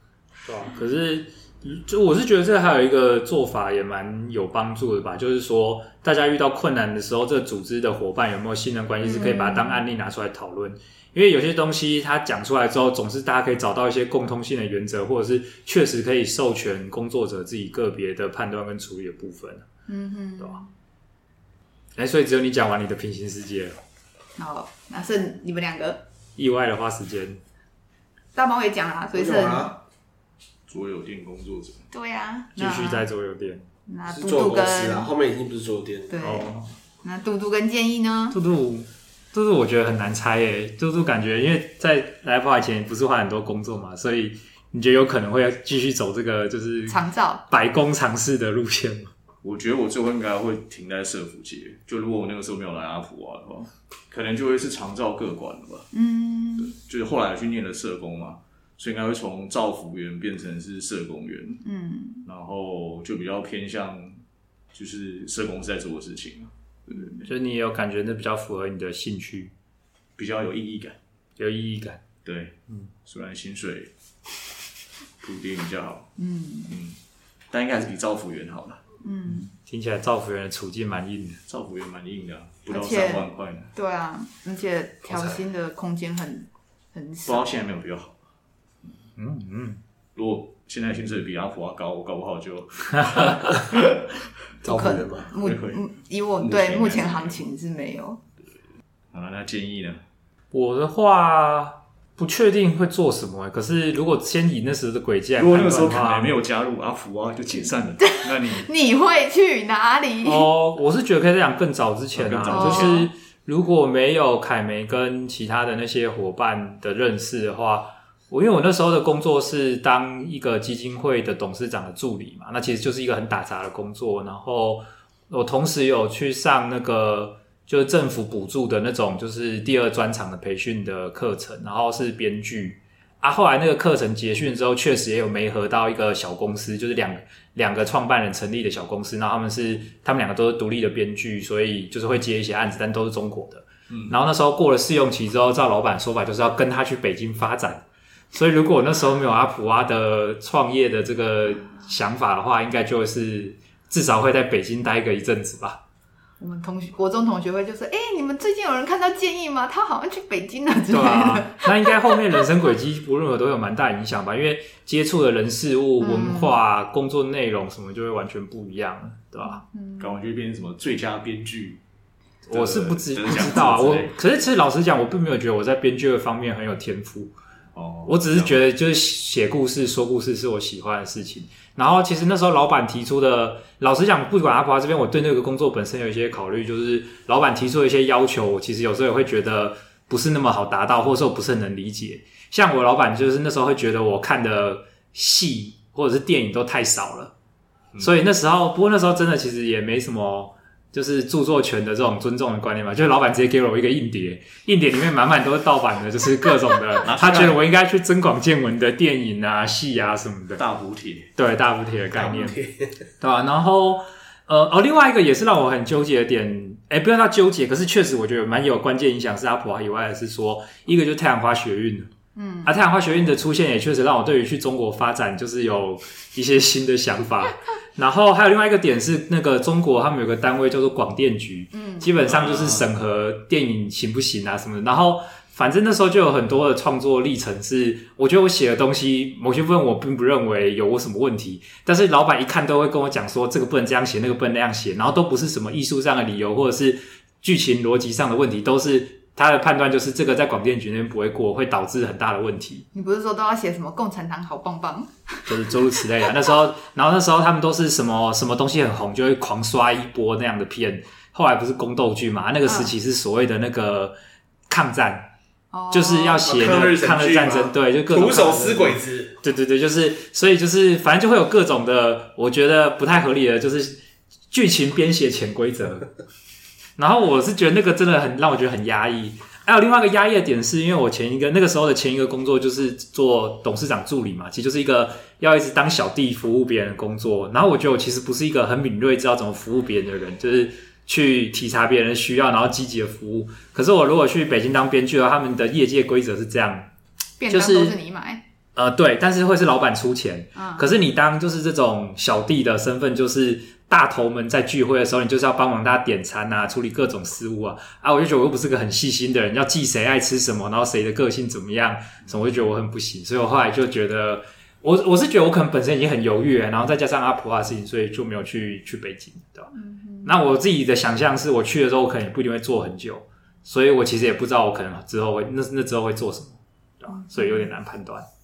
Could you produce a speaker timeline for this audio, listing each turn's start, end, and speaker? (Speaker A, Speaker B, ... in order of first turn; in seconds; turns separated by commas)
Speaker A: 0.5-19.7, Speaker B: 9.0-9.8, Speaker B: 19.9-20.7, Speaker A: 22.0-23.8, Speaker B: 24.4-26.0, Speaker A: 26.4-27.4, Speaker B: 28.3-29.8, Speaker C: 29.1-29.8, Speaker D: 30.7-31.9, Speaker B: 31.9-33.1, Speaker A: 32.5-33.7, Speaker B: 33.9-35.1, Speaker C: 34.1-36.1, Speaker B: 36.1-38.4, Speaker A: 36.2-36.7, Speaker A: 38.3-49.1, Speaker B: 46.9-47.4, Speaker D: 49.4-55.9, Speaker B: 55.9-56.7, Speaker D: 56.6-61.6, Speaker B: 61.6-62.2, Speaker D: 62.2-64.2, Speaker D: 64.7-67.2, Speaker A: 67.2-69.5, Speaker D: 70.2-71.0, Speaker A: 71.4-72.0, Speaker D: 72.2-73.9, Speaker D: 75.2-76.1, Speaker B: 76.2-76.8, Speaker D: 76.7-77.0, Speaker D: 77.5-78.8, Speaker B: 79.0-79.5, Speaker A: 79.3-81.4, Speaker D: 81.5-83.7, Speaker B: 82.7-87.6, Speaker C: 85.1-85.4, Speaker D: 87.2-88.2, Speaker A: 89.2-89.8, Speaker D: 90.2-94.0, Speaker C: 94.6-95.3, Speaker B: 94.6-98.2, Speaker D: 95.3-95.8, Speaker D: 96.4-97.4, Speaker D: 99.1-100.0, Speaker A: 100.5-106.3, Speaker D: 105.4-108.7, Speaker B: 108.0-110.5, Speaker A: 110.2-155.8, Speaker D: 112.2-113.1, Speaker B: 112.5-113.1, Speaker B: 156.4-162.2, Speaker A: 160.9-169.6, Speaker B: 166.0-166.6, Speaker B: 169.4-170.2, Speaker D: 170.0-171.8, Speaker A: 172.5-177.3, Speaker D: 172.5-174.1, Speaker D: 177.8-178.6, Speaker A: 178.1-197.3, Speaker A: 198.0-210.6, Speaker D: 207.0-207.6, Speaker D: 210.6-211.3, Speaker A: 211.4-212.6, Speaker C: 212.2-213.0, Speaker A: 213.2-222.1, Speaker B: 222.3-222.9, Speaker A: 222.6-252.9, Speaker B: 231.7-232.1, Speaker D: 232.2-232.9, Speaker B: 252.9-255.3, Speaker A: 255.5-264.1, Speaker B: 262.7-262.9, Speaker A: 264.7-265.3, Speaker B: 265.7-266.5, Speaker A: 265.9-274.0, Speaker C: 266.4-269.4, Speaker A: 274.5-276.1, Speaker A: 277.0-296.9, Speaker B: 297.4-298.4, Speaker A: 297.5-297.9, Speaker A: 298.8-319.7, Speaker B: 300.6-300.9, Speaker B: 319.7-320.4, Speaker A: 320.2-328.3, Speaker B: 327.2-327.6